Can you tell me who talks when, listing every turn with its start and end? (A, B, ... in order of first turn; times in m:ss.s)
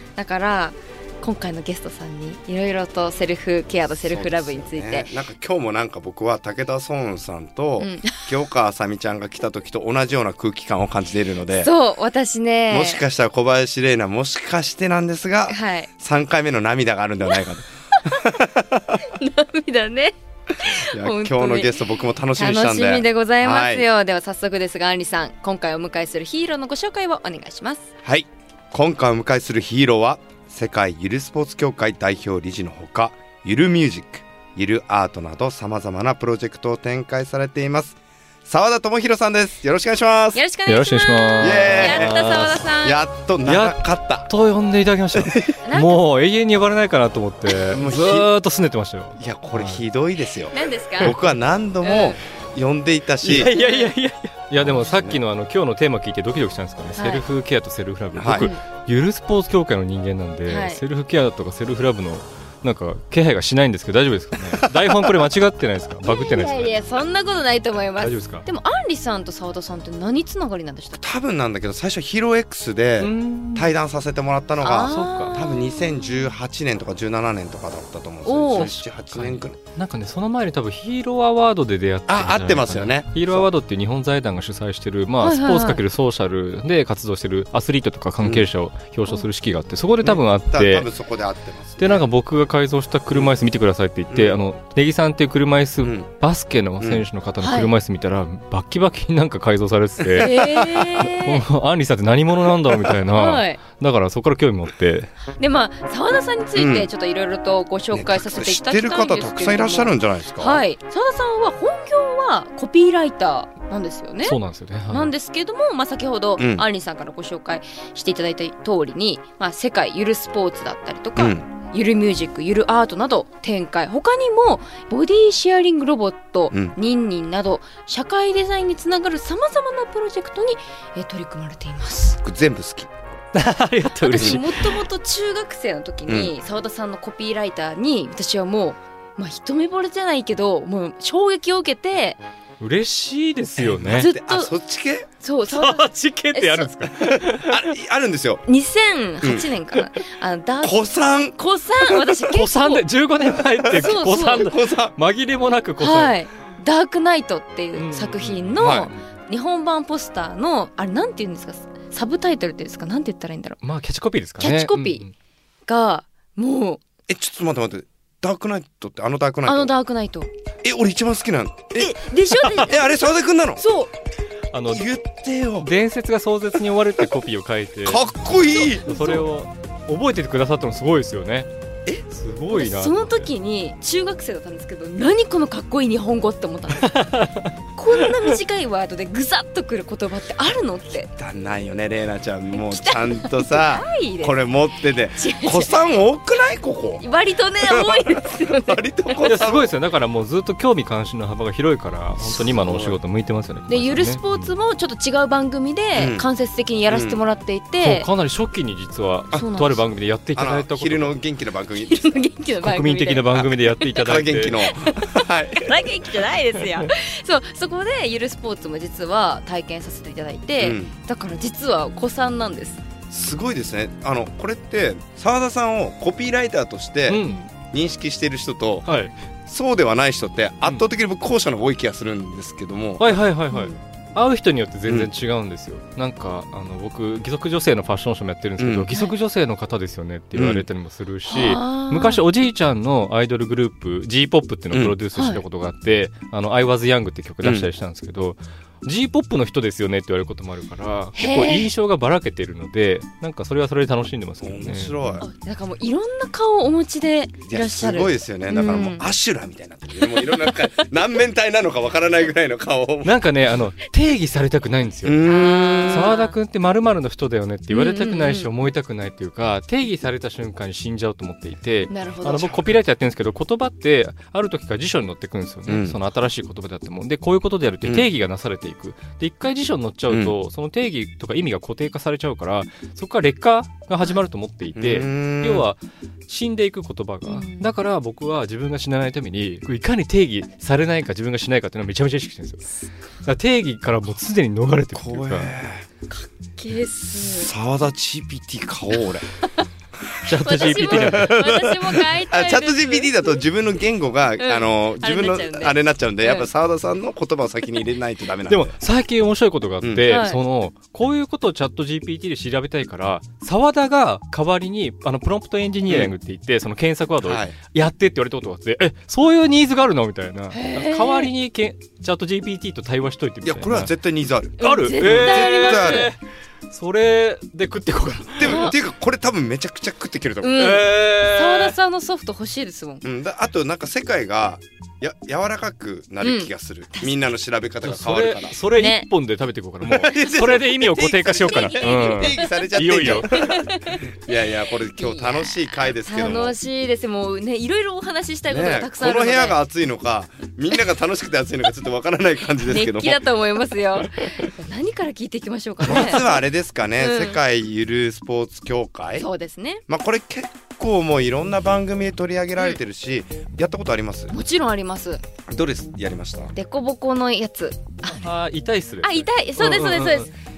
0:00.2-0:05.1 A
0:04.0-0:11.7 B
0:07.8-0:08.3 A
0:11.6-0:13.0 A
0:12.7-0:19.0 B
0:15.5-0:15.9 A
0:18.0-0:18.3 A
0:19.0-0:21.8 A
0:20.7-0:23.8 B
0:22.4-0:27.9 A
0:28.0-0:40.4 B
0:40.3-0:43.0 A
0:40.7-0:42.6 C
0:41.4-0:44.3 B
0:43.4-0:49.8 C
0:45.6-0:46.0 A
0:47.7-0:48.3 B
0:49.2-0:53.5 B
0:50.5-0:51.2 A
0:51.8-0:52.2 A
0:53.2-1:06.8 C
0:53.4-0:53.9 A
0:54.8-0:55.2 B
0:57.0-0:57.2 A
0:58.2-0:58.5 B
0:58.3-0:58.6 A
1:00.5-1:00.8 A
1:04.5-1:05.2 B
1:06.0-1:11.0 A
1:08.0-1:08.4 C
1:11.0-1:19.6 B
1:13.0-1:13.7 C
1:14.6-1:15.9 A
1:14.8-1:15.4 C
1:18.2-1:18.7 A
1:18.6-1:30.9 C
1:22.1-1:23.5 B
1:25.2-1:25.8 A
1:30.0-1:32.0 B
1:31.8-1:45.1 C
1:34.1-1:34.4 B
1:35.8-1:36.1 B
1:36.8-1:37.0 B
1:37.4-1:37.7 A
1:40.2-1:40.9 B
1:40.2-1:41.4 A
1:43.1-1:43.6 A
1:45.4-1:54.4 A
1:46.6-1:46.9 B
1:47.9-1:50.6 B
1:54.2-1:55.1 C
1:54.9-2:12.2 A
1:56.4-1:56.6 B
2:01.2-2:01.4 B
2:12.2-2:13.0 B
2:13.3-2:14.8 C
2:14.0-2:22.2 A
2:16.1-2:16.3 B
2:22.6-2:24.1 C
2:23.6-2:25.1 B
2:23.8-2:24.5 A
2:25.2-2:26.7 A
2:25.5-2:27.6 C
2:27.1-2:28.4 B
2:28.5-2:30.8 A
2:29.2-2:29.5 B
2:30.6-2:32.0 B
2:31.3-2:32.8 A
2:32.3-2:36.1 C
2:33.6-2:34.9 B
2:33.7-2:34.5 A
2:35.8-2:43.6 A
2:37.8-2:39.0 C
2:38.6-2:38.9 B
2:43.6-2:45.1 C
2:44.4-2:45.0 A
2:45.6-2:46.8 A
2:47.1-2:49.7 B
2:49.4-2:50.3 A
2:50.6-2:51.9 B
2:51.8-2:53.9 A
2:52.5-2:53.6 B
2:54.5-2:54.9 C
2:54.7-2:55.7 B
2:55.6-2:58.0 C
2:57.8-2:59.2 B
2:58.8-3:01.5 C
3:02.1-3:03.3 C
3:02.5-3:07.1 A
3:06.8-3:07.5 C
3:07.8-3:11.1 A
3:11.2-3:17.0 B
3:12.6-3:14.4 A
3:15.2-3:15.8 A
3:17.0-3:19.3 A
3:17.6-3:19.7 B
3:19.2-3:24.5 C
3:22.2-3:23.0 B
3:23.7-3:28.1 A
3:25.9-3:26.2 B
3:26.9-3:27.2 B
3:27.8-3:31.2 C
3:29.3-3:29.8 A
3:30.4-3:32.2 B
3:31.7-3:33.4 A
3:32.6-3:34.6 C
3:33.3-3:35.9 B
3:34.6-3:42.8 A
3:40.6-3:40.9 B
3:43.1-3:53.2 B
3:47.1-3:47.4 C
3:48.9-3:49.1 C
3:53.0-4:15.0 C
3:53.5-3:53.8 A
3:58.6-3:58.9 B
4:00.3-4:00.6 B
4:01.3-4:02.2 A
4:05.1-4:05.4 A
4:07.4-4:07.7 B
4:11.2-4:11.7 A
4:14.4-4:15.3 B
4:15.2-4:19.1 A
4:17.5-4:23.2 B
4:20.0-4:20.6 A
4:23.0-4:25.2 C
4:25.0-4:26.2 B
4:25.2-4:26.3 A
4:25.9-4:52.6 C
4:27.7-4:28.5 A
4:31.9-4:32.6 A
4:35.7-4:36.0 B
4:40.1-4:40.3 B
4:44.8-4:45.6 B
4:47.2-4:47.7 A
4:53.2-4:55.6 C
4:54.9-4:55.9 B
4:56.1-4:57.5 A
4:57.2-4:59.3 B
5:00.2-5:01.4 C
5:00.4-5:03.4 A
5:00.4-5:08.8 B
5:04.4-5:06.5 A
5:08.5-5:23.9 C
5:09.8-5:10.1 B
5:10.1-5:10.4 A
5:15.9-5:16.1 B
5:17.2-5:17.6 B
5:20.5-5:21.3 A
5:23.4-5:26.1 B
5:24.6-5:28.7 C
5:24.6-5:26.1 A
5:28.4-5:30.7 B
5:28.4-5:28.7 A
5:30.4-5:33.0 A
5:30.6-5:31.8 C
5:33.0-5:38.6 B
5:36.2-5:37.2 A
5:37.8-5:43.5 C
5:38.8-5:39.1 A
5:39.9-5:46.6 B
5:41.2-5:49.6 A
5:48.5-5:53.2 B
5:52.6-5:56.4 A
5:55.8-5:59.2 B
5:57.0-5:57.4 A
5:59.2-5:59.8 A
5:59.9-6:04.3 B
6:04.3-6:05.2 A
6:05.5-6:06.5 B
6:06.5-6:08.3 A
6:08.1-6:10.3 C
6:09.0-6:10.3 A